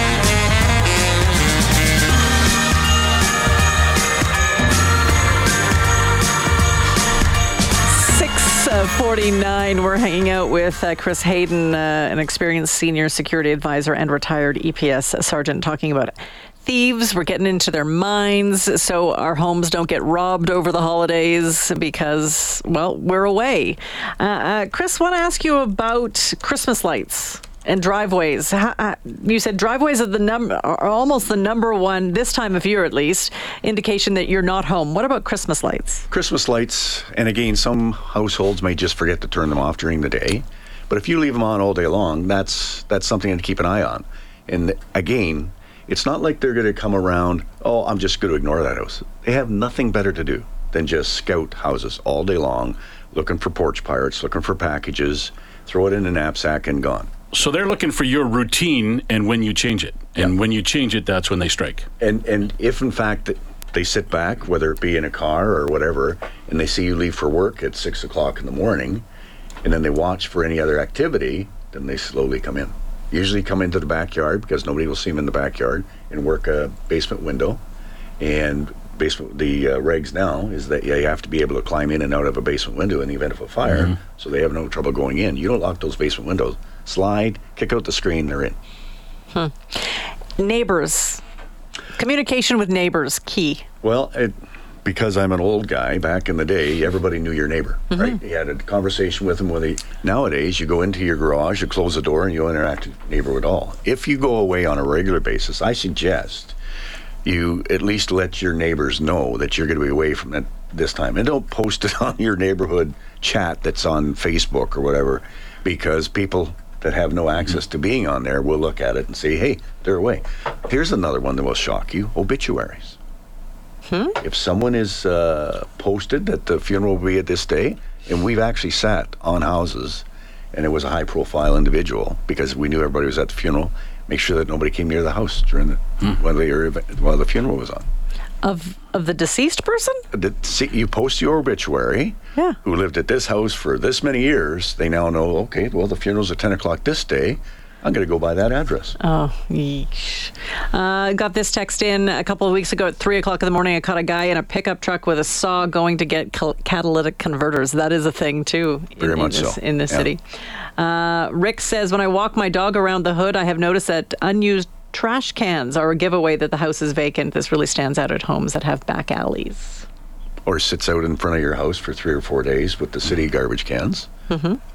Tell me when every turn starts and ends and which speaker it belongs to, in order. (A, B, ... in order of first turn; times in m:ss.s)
0:07.8-0:36.1 A
0:36.1-0:57.1 B
0:57.3-1:01.9 C
1:02.0-1:09.0 B
1:09.6-1:17.6 B
1:18.2-1:28.6 B
1:29.3-1:31.2 A
1:32.0-1:33.6 A
1:33.8-1:46.6 B
1:37.9-1:38.2 A
1:47.2-2:03.0 B
2:03.9-2:04.2 A
2:04.2-2:17.8 B
2:18.4-2:20.0 A
2:20.1-2:29.0 B
2:29.0-2:40.2 A
2:39.0-2:40.1 B
2:40.8-2:49.8 A
2:50.4-2:54.1 B
2:54.3-2:54.6 A